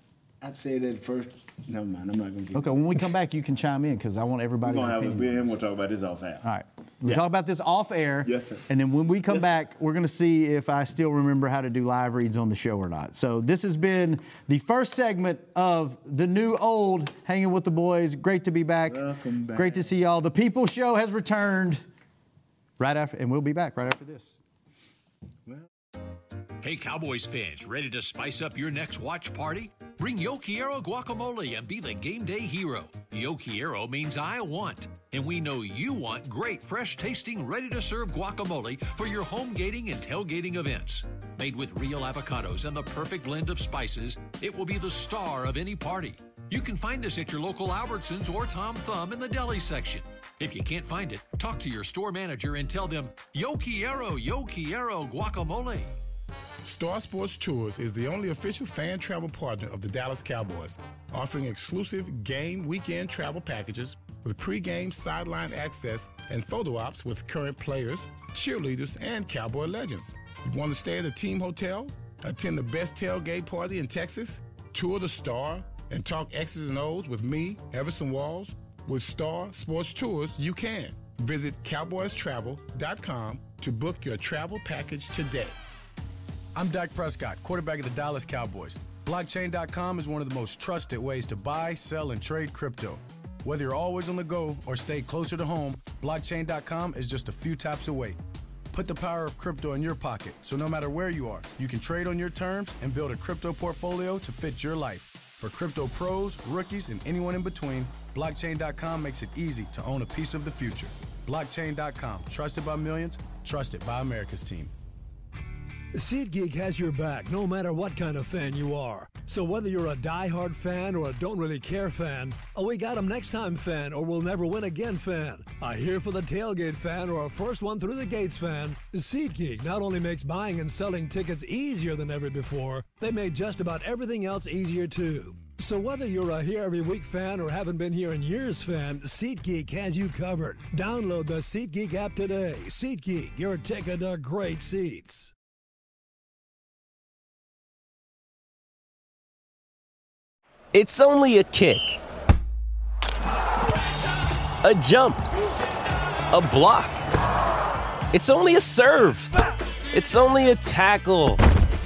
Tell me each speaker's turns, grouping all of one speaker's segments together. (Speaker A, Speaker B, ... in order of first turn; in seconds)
Speaker A: 0.4-2.9, 4.6-6.5, 8.2-8.6, 18.9-19.9
Speaker B: 2.5-5.5, 6.4-19.0, 19.5-21.8, 22.8-24.4
Speaker C: 26.6-56.0
Speaker D: 56.6-85.6
Speaker E: 86.5-98.2, 98.7-114.7
Speaker F: 115.9-145.3
Speaker G: 150.7-152.0, 154.6-155.3, 156.3-157.1, 158.1-161.4